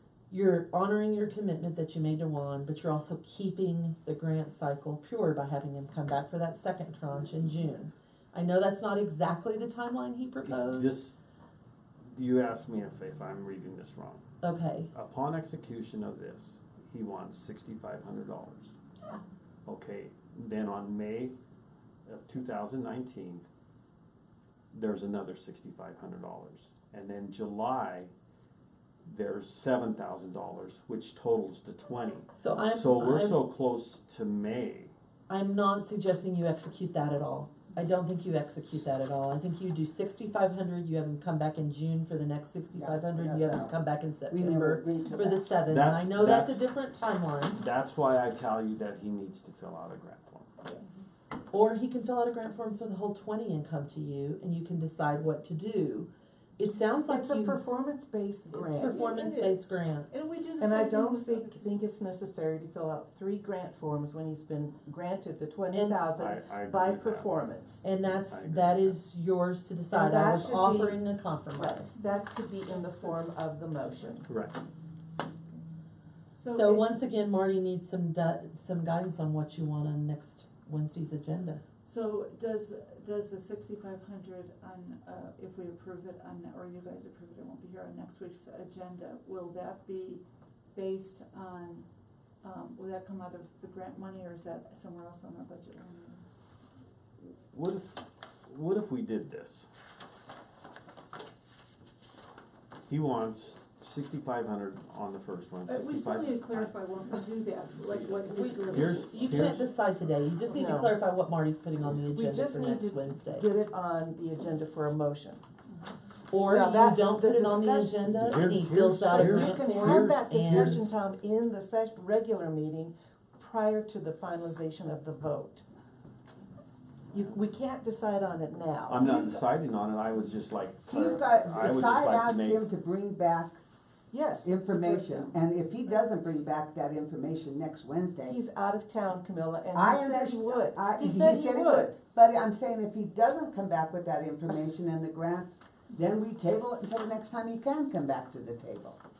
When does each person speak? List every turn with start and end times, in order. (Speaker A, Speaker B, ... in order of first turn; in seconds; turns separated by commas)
Speaker A: 0.3-11.0, Speaker B: 10.4-11.2, Speaker B: 12.1-14.2, Speaker A: 14.4-14.9, Speaker B: 14.9-18.7, Speaker B: 19.6-21.4, Speaker B: 22.1-23.4, Speaker B: 24.7-28.1, Speaker B: 29.0-34.9, Speaker A: 32.3-33.4, Speaker A: 35.3-47.6, Speaker C: 42.8-45.5, Speaker B: 45.7-46.6, Speaker B: 47.5-50.6, Speaker A: 51.5-57.6, Speaker D: 57.0-59.1, Speaker E: 58.5-61.6, Speaker A: 58.7-60.1, Speaker D: 60.6-67.8, Speaker A: 65.7-66.0, Speaker B: 66.1-67.3, Speaker A: 67.8-71.9, Speaker B: 67.9-69.0, Speaker D: 69.9-71.0, Speaker D: 71.5-74.3, Speaker E: 72.0-73.3, Speaker B: 74.3-74.6, Speaker E: 76.3-76.9, Speaker A: 76.5-81.6, Speaker E: 81.8-90.2, Speaker E: 90.7-91.8, Speaker E: 92.4-96.2, Speaker B: 97.2-99.7, Speaker B: 102.9-106.7, Speaker E: 105.7-109.5, Speaker B: 107.9-109.7, Speaker A: 108.3-113.5, Speaker D: 110.5-111.0, Speaker D: 112.1-115.4, Speaker A: 116.3-120.8, Speaker D: 116.4-118.0, Speaker B: 118.0-120.8, Speaker D: 119.1-125.7, Speaker D: 127.1-129.2, Speaker B: 128.9-132.6, Speaker C: 129.0-129.4, Speaker C: 130.9-133.6, Speaker D: 134.1-134.6, Speaker C: 134.4-138.4, Speaker E: 134.7-135.3, Speaker D: 138.2-141.9, Speaker C: 139.7-149.0